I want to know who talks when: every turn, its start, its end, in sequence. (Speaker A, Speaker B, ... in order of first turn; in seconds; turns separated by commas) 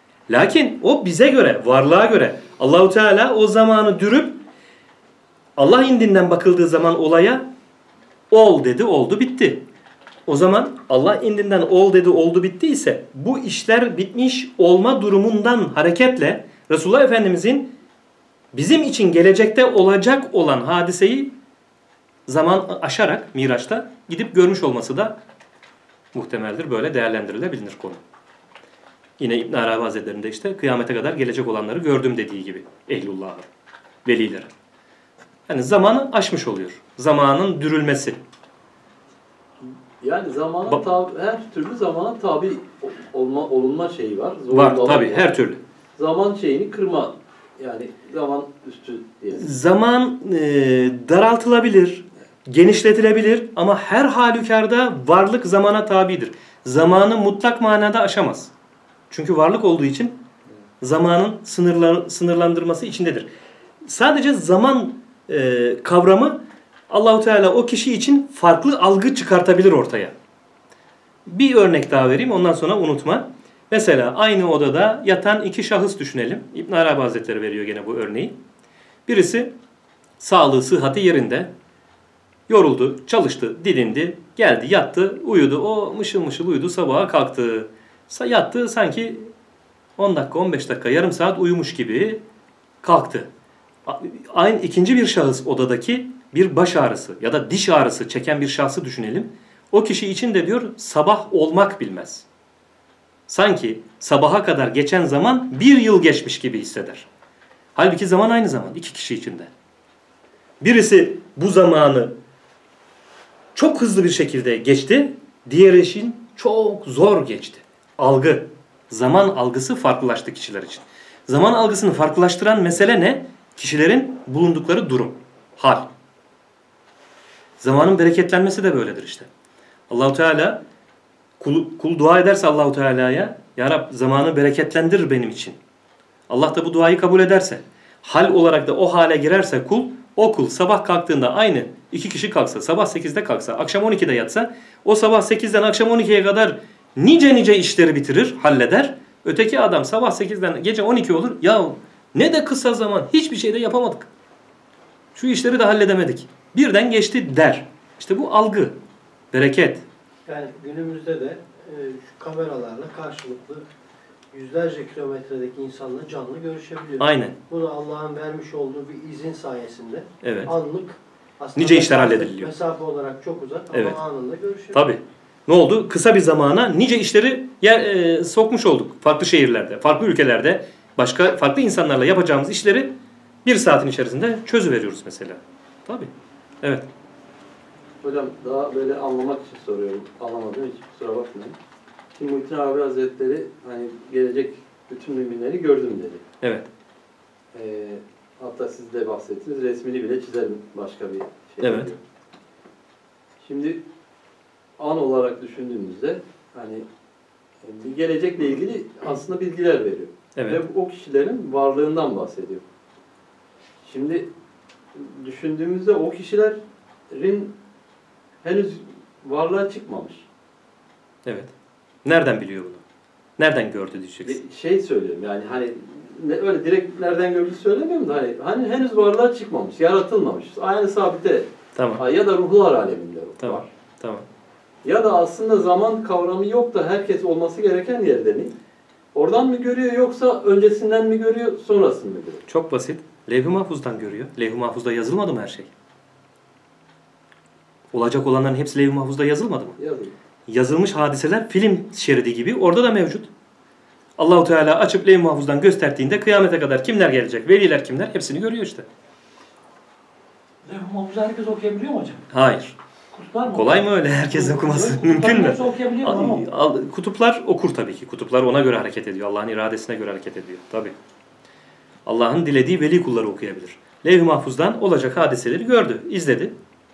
Speaker A: 0.3-4.4, Speaker A: 5.6-7.5, Speaker A: 8.3-9.7, Speaker A: 10.3-17.7, Speaker A: 18.5-21.3, Speaker A: 22.3-25.2, Speaker A: 26.1-28.0, Speaker A: 29.2-33.5, Speaker A: 34.0-34.5, Speaker A: 35.5-38.2, Speaker B: 40.0-45.3, Speaker A: 44.5-45.6, Speaker B: 46.0-49.5, Speaker A: 49.4-58.5, Speaker A: 59.1-60.2, Speaker A: 60.8-63.3, Speaker A: 63.9-70.1, Speaker A: 71.3-78.4, Speaker A: 79.1-79.5, Speaker A: 80.2-81.5, Speaker A: 82.5-89.3, Speaker A: 90.0-92.2, Speaker A: 92.8-93.3, Speaker A: 93.9-102.3, Speaker A: 103.3-107.1, Speaker A: 107.8-109.5, Speaker A: 110.6-112.2, Speaker A: 113.5-125.9, Speaker A: 127.6-129.3, Speaker A: 129.9-130.6, Speaker A: 131.4-135.6, Speaker A: 136.3-154.1, Speaker A: 155.2-158.8, Speaker A: 159.3-159.8, Speaker C: 160.2-163.6, Speaker C: 164.3-174.9, Speaker A: 167.0-167.4, Speaker A: 170.2-170.5, Speaker A: 171.6-172.5, Speaker A: 173.7-174.0, Speaker A: 174.7-182.9, Speaker A: 183.4-186.1, Speaker A: 186.6-186.9, Speaker B: 188.0-191.6, Speaker B: 192.2-196.2, Speaker A: 196.4-196.7, Speaker B: 197.5-202.0, Speaker A: 201.6-201.9, Speaker B: 203.4-203.8, Speaker B: 204.8-206.8, Speaker B: 207.6-212.6, Speaker A: 210.3-210.6, Speaker B: 213.8-214.3, Speaker B: 214.9-216.6, Speaker B: 217.1-217.6, Speaker B: 218.4-220.2, Speaker A: 221.2-221.5, Speaker A: 222.1-222.8, Speaker A: 223.4-224.4, Speaker B: 224.2-233.7, Speaker A: 231.8-232.0, Speaker A: 233.4-234.3, Speaker B: 234.8-238.5, Speaker B: 239.1-242.4, Speaker A: 242.5-245.7, Speaker A: 247.9-249.8, Speaker B: 249.8-250.1, Speaker A: 250.5-253.3, Speaker A: 254.2-258.9, Speaker D: 260.7-262.2, Speaker C: 261.8-262.2, Speaker A: 262.3-262.8, Speaker D: 263.2-263.9, Speaker A: 263.5-270.9, Speaker D: 264.4-266.4, Speaker C: 265.0-266.2, Speaker A: 272.1-276.6